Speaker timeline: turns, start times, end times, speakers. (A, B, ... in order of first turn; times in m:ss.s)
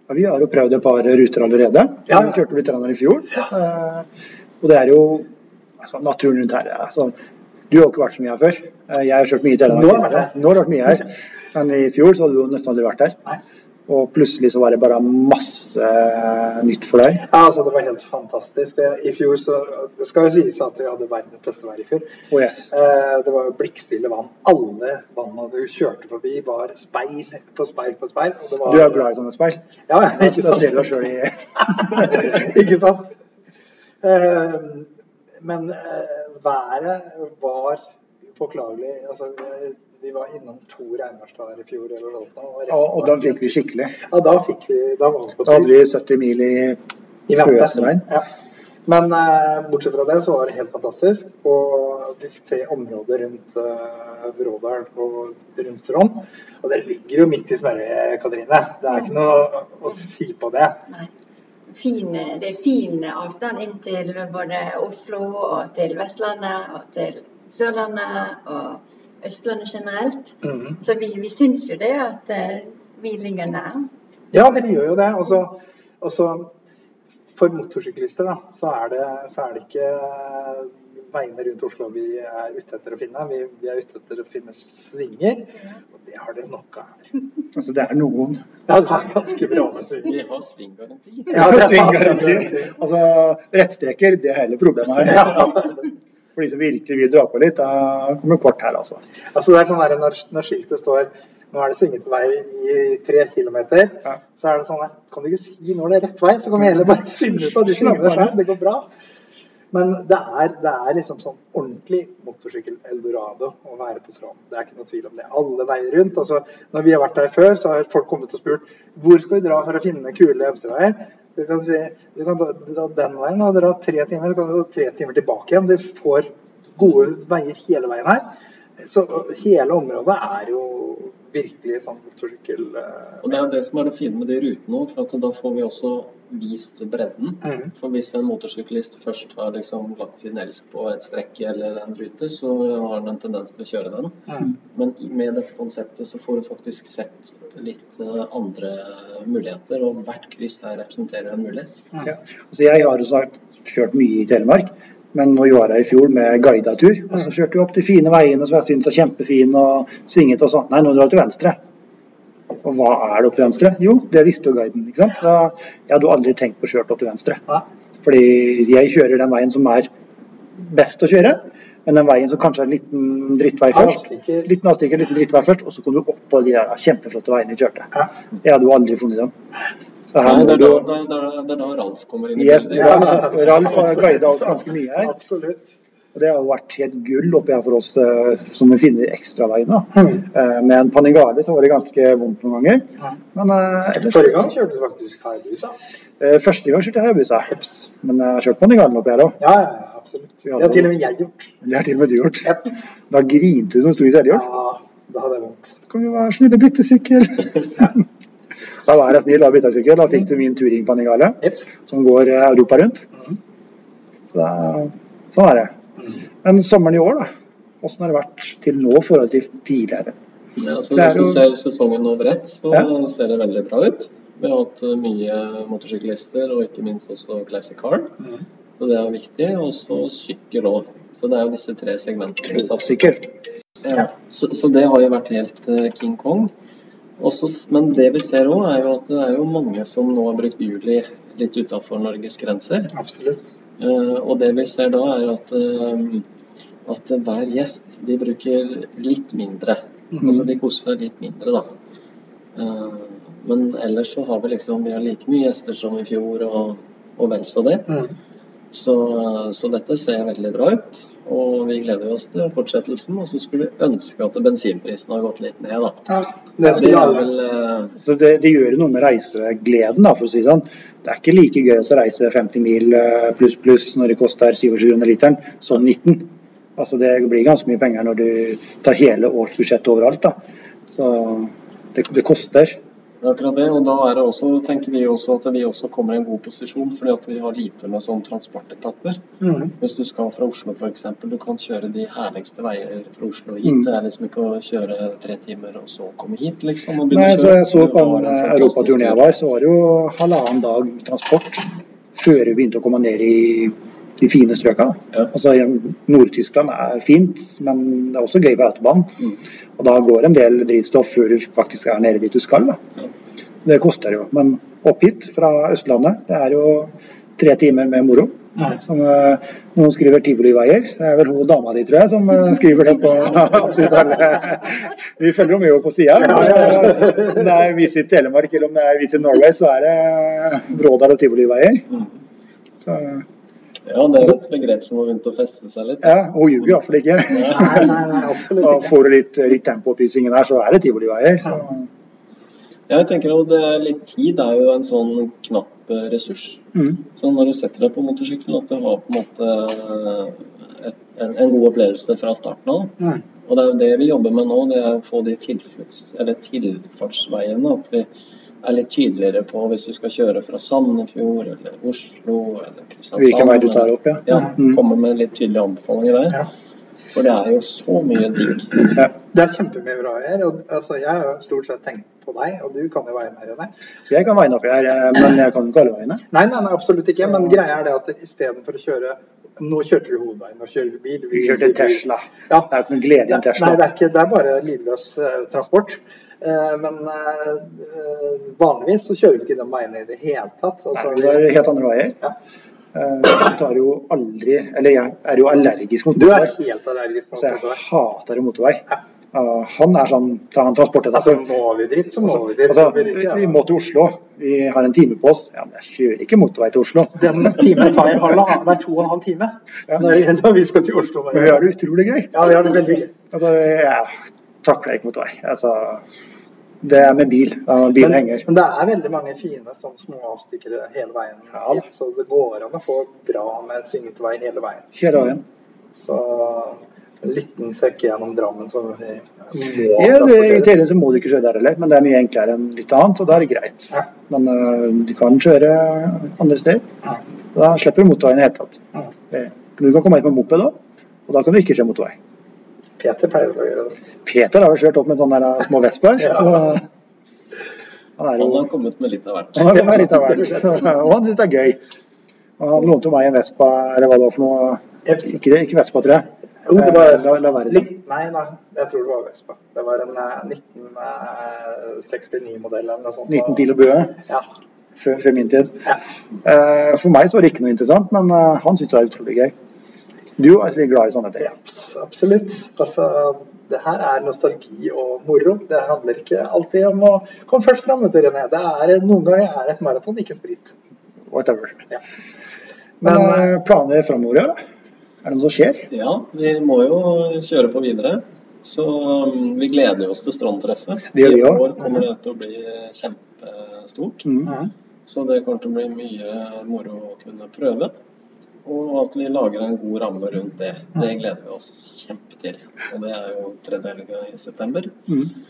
0:00.1-0:04.1 A
0:02.1-0:02.4 B
0:04.6-0:05.3 A
0:05.8-0:07.2 A
0:07.7-0:13.2 A
0:09.7-0:10.4 B
0:13.9-0:17.2 A
0:17.2-0:22.1 B
0:22.3-0:22.7 A
0:22.7-0:29.1 B
0:28.6-0:32.4 A
0:29.9-0:30.8 B
0:31.7-0:33.1 B
0:34.0-0:37.8 B
0:38.4-0:45.7 B
0:42.7-0:44.0 A
0:45.5-0:46.8 A
0:47.3-0:48.3 B
0:47.3-0:48.1 A
0:48.9-1:00.8 B
1:01.7-1:13.9 C
1:10.4-1:10.8 B
1:14.3-1:16.5 B
1:17.4-1:27.0 B
1:27.6-1:28.4 A
1:28.7-1:30.2 B
1:30.0-1:31.8 D
1:31.3-1:35.6 A
1:31.3-1:32.7 B
1:35.2-1:35.6 B
1:36.4-1:39.0 A
1:39.3-1:48.9 B
1:46.8-1:48.4 A
1:49.7-2:13.3 B
2:13.2-2:31.9 D
2:17.4-2:17.7 B
2:32.1-2:41.6 A
2:42.6-2:47.4 A
2:48.0-2:49.9 A
2:50.6-2:57.9 A
2:53.7-2:54.6 B
2:58.4-2:59.3 A
3:00.1-3:00.9 A
3:00.2-3:03.2 D
3:02.4-3:05.2 A
3:02.8-3:05.8 B
3:06.1-3:14.5 A
3:10.0-3:10.2 B
3:14.0-3:15.8 B
3:16.2-3:17.5 A
3:17.5-3:17.8 B
3:18.0-3:19.4 A
3:19.4-3:21.5 B
3:20.4-3:20.9 A
3:21.6-3:22.5 A
3:22.4-3:22.9 B
3:23.1-3:24.5 A
3:24.3-3:25.8 B
3:25.9-3:28.0 A
3:28.8-3:33.1 A
3:31.4-3:31.7 B
3:34.3-3:35.8 A
3:36.4-3:40.2 A
3:40.6-3:48.2 D
3:41.0-3:41.4 A
3:48.8-3:53.2 D
3:52.4-3:53.2 A
3:53.8-3:56.5 D
3:57.2-4:02.9 D
4:02.9-4:03.5 B
4:03.8-4:06.3 D
4:06.9-4:11.7 D
4:12.6-4:17.9 D
4:17.9-4:18.1 B
4:18.7-4:26.1 D
4:26.1-4:27.3 B
4:26.6-4:28.0 D
4:28.0-4:40.4 A
4:40.9-4:42.8 A
4:43.2-4:49.2 D
4:49.4-4:49.7 B
4:49.8-4:59.3 D
4:57.1-5:12.8 A
5:13.6-5:32.0 A
5:32.8-5:33.2 A
5:33.9-5:36.4 D
5:36.0-5:38.0 A
5:37.4-5:39.0 B
5:38.6-5:41.9 A
5:42.9-5:58.1 D
5:46.8-5:47.0 A
5:58.6-6:06.5 D
6:03.2-6:04.8 A
6:07.1-6:08.9 D
6:09.3-6:13.7 B
6:14.1-6:16.2 A
6:16.3-6:22.7 B
6:17.2-6:17.6 A
6:21.3-6:23.8 A
6:23.3-6:31.5 B
6:31.0-6:32.2 A
6:32.9-6:36.5 A
6:36.2-6:37.8 B
6:37.4-6:41.5 A
6:41.1-6:43.6 B
6:42.2-6:47.5 A
6:47.2-6:51.7 B
6:51.3-6:52.5 A
6:52.3-6:53.1 B
6:53.3-6:56.0 A
6:56.8-6:58.5 A
6:58.0-7:04.9 B
7:04.9-7:05.4 A
7:06.0-7:10.8 B
7:10.0-7:16.9 A
7:17.5-7:22.2 A
7:23.0-7:24.0 B
7:24.2-7:26.8 A
7:28.2-7:28.7 A
7:28.4-7:30.1 D
7:29.6-7:31.8 A
7:32.6-7:37.9 A
7:35.1-7:35.3 B
7:36.6-7:43.7 B
7:43.3-7:44.2 A
7:45.0-7:45.9 A
7:46.4-7:49.5 A
7:50.4-7:51.5 A
7:51.4-8:00.7 B
8:01.3-8:01.8 A
8:03.0-8:03.5 B
8:03.0-8:04.6 A
8:05.2-8:05.9 A
8:05.9-8:14.3 D
8:11.1-8:11.7 A
8:14.2-8:14.5 A
8:15.1-8:17.9 D
8:18.6-8:25.0 D
8:25.1-8:25.3 A